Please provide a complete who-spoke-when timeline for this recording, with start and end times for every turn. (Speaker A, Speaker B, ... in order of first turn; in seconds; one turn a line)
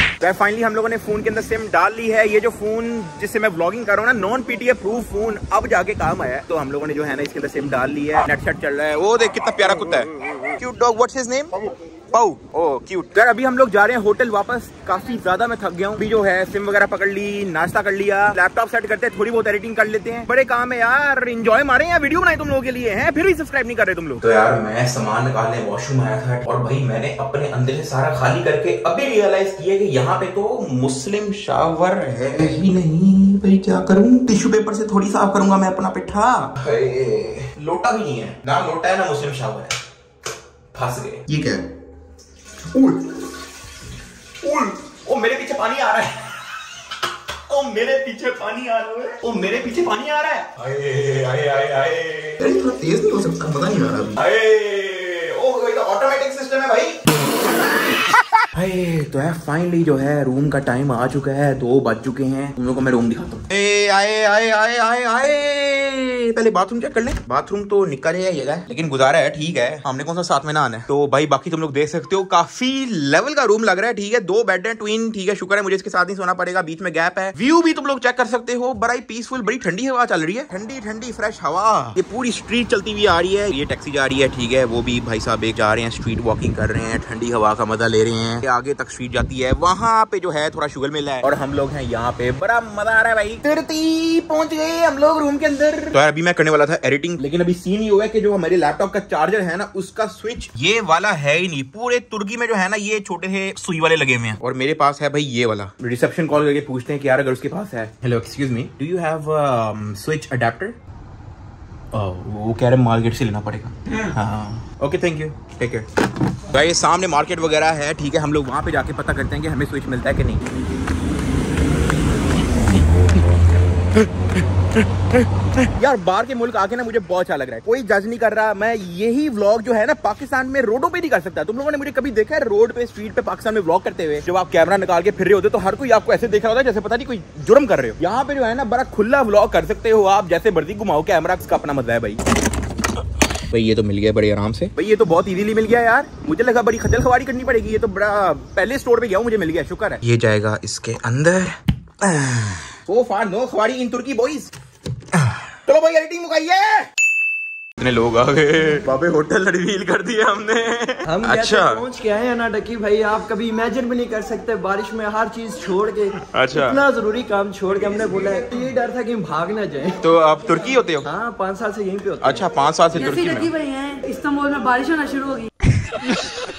Speaker A: 0.2-39.8
Speaker A: 40.7-41.6
Speaker A: 42.7-43.1
Speaker A: 44.4-46.6
Speaker A: 47.5-57.8
Speaker A: 58.4-110.8
Speaker A: 111.9-120.4
Speaker A: 125.6-142.2
Speaker A: 143.4-154.5
Speaker A: 155.2-156.9
Speaker A: 157.8-161.8
Speaker B: 161.1-170.0
Speaker A: 166.3-166.8
Speaker A: 170.0-171.1
Speaker B: 171.0-172.5
Speaker A: 172.2-173.5
Speaker C: 173.0-175.5
Speaker A: 176.0-176.4